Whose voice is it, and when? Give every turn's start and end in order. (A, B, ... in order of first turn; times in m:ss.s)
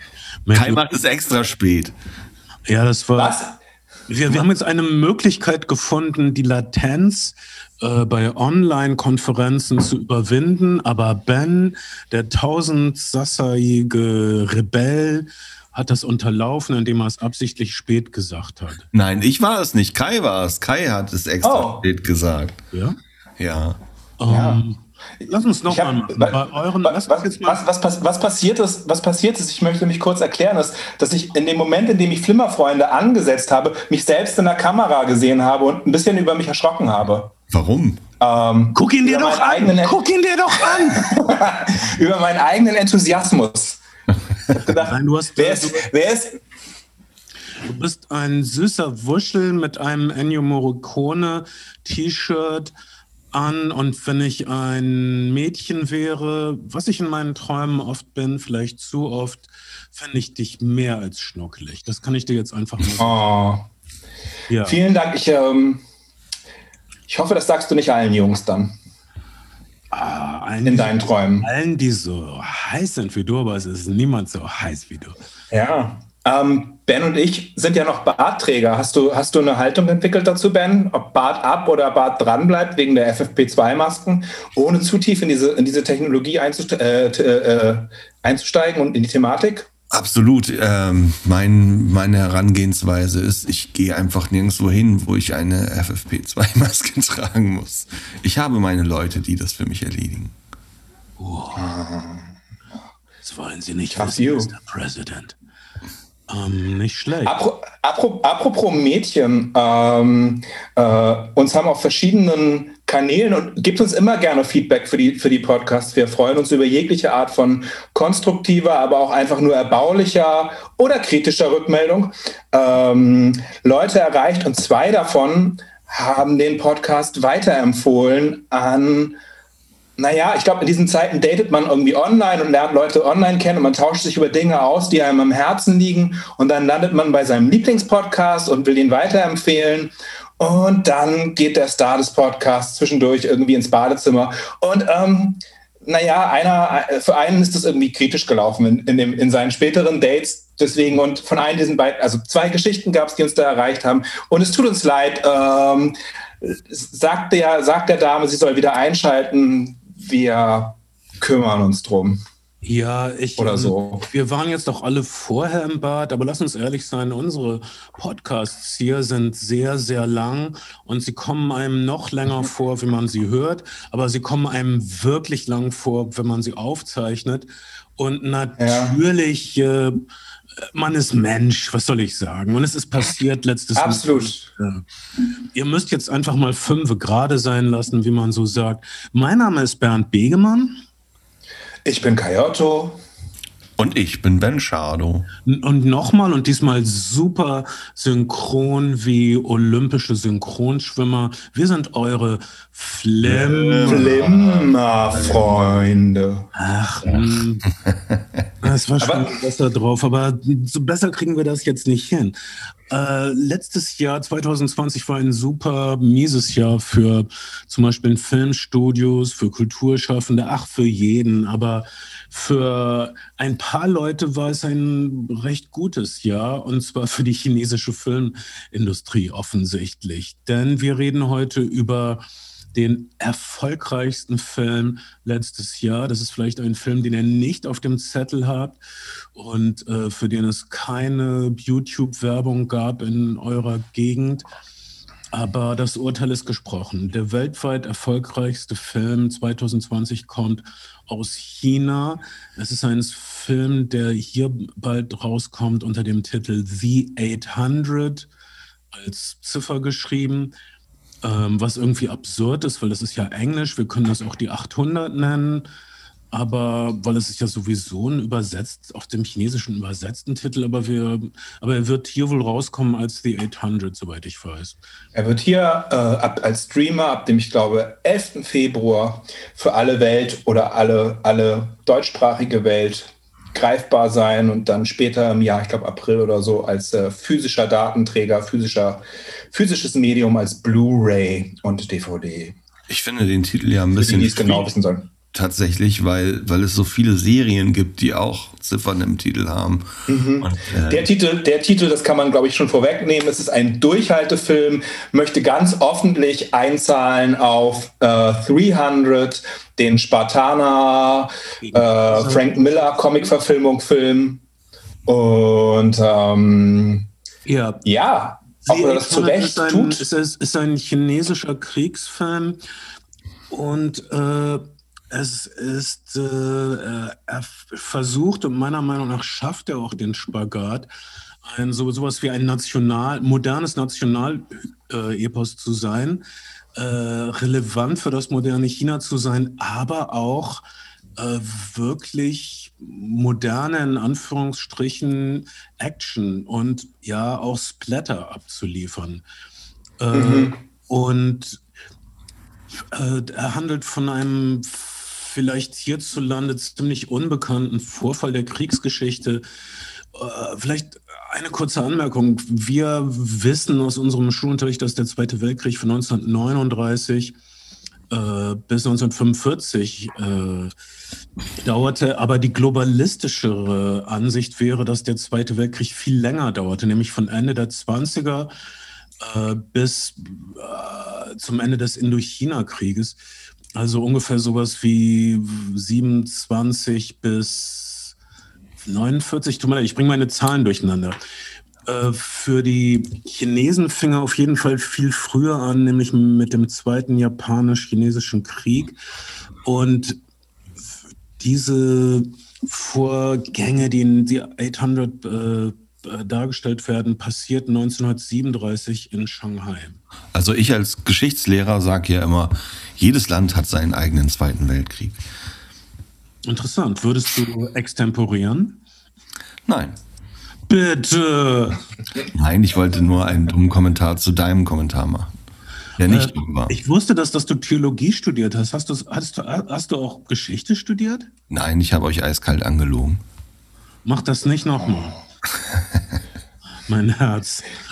0:00.4-0:00.8 A
0:00.5-0:01.9 B
0:02.7-0:03.4 A
0:03.2-0:03.5 C
0:04.1-0:18.9 A
0:18.9-0:22.6 B
0:21.4-0:21.8 C
0:22.7-0:23.0 A
0:23.4-0:23.8 B
0:24.2-0:27.6 A
0:24.3-0:24.6 C
0:25.7-0:37.3 C
0:37.5-0:38.0 B
0:38.2-0:43.8 C
0:38.7-0:41.2 A
0:44.5-0:46.4 C
0:44.6-0:45.9 A
0:47.6-0:52.7 A
0:53.3-1:03.2 A
1:03.0-1:03.6 C
1:04.5-1:04.8 A
1:04.6-1:05.8 C
1:07.1-1:08.7 C
1:09.9-1:15.2 A
1:10.6-1:11.5 C
1:15.5-1:29.7 C
1:29.9-1:40.3 B
1:41.2-1:41.7 A
1:41.5-1:42.3 C
1:43.2-1:45.4 A
1:43.9-1:44.5 C
1:46.3-1:47.4 A
1:47.2-2:09.2 C
2:10.0-2:42.2 C
2:42.6-3:00.0 A
2:43.4-2:44.0 C
2:58.6-2:59.0 C
3:00.6-3:04.8 A
3:03.8-3:04.5 C
3:05.5-3:10.8 A
3:11.8-3:13.0 C
3:13.8-3:15.3 B
3:15.4-3:24.2 A
3:23.2-3:25.8 B
3:23.9-3:26.5 C
3:26.5-3:27.7 A
3:27.8-3:28.2 B
3:28.6-3:32.4 A
3:29.0-3:29.3 C
3:32.9-3:52.2 A
3:52.7-3:58.8 A
3:59.3-4:04.4 A
4:05.3-4:18.3 A
4:18.9-4:20.5 A
4:21.2-4:25.7 A
4:26.3-4:34.8 A
4:35.1-4:52.6 C
4:52.9-4:54.7 B
4:54.0-4:55.1 C
4:55.3-5:01.1 B
5:00.1-5:14.4 C
5:11.6-5:13.3 A
5:15.0-5:17.1 C
5:17.4-5:17.8 A
5:17.8-5:20.0 C
5:18.6-5:22.6 A
5:23.5-5:30.9 A
5:31.4-5:36.2 A
5:36.8-5:40.6 A
5:41.2-5:49.2 A
5:50.0-5:51.6 A
5:50.1-5:50.5 C
5:52.9-5:59.4 A
6:00.1-6:07.3 A
6:08.1-6:10.7 A
6:11.6-6:18.5 A
6:19.2-6:23.2 A
6:23.8-6:28.1 A
6:28.8-6:31.2 A
6:31.8-6:39.0 A
6:39.6-6:40.2 A
6:41.4-6:50.0 A
6:50.3-6:55.2 B
6:56.4-6:58.8 A
6:59.6-7:00.0 B
7:00.7-7:01.8 A
7:02.3-7:05.3 B
7:06.0-7:06.7 B
7:06.0-7:11.3 A
7:11.5-7:13.2 B
7:14.0-7:15.2 A
7:16.9-7:17.7 A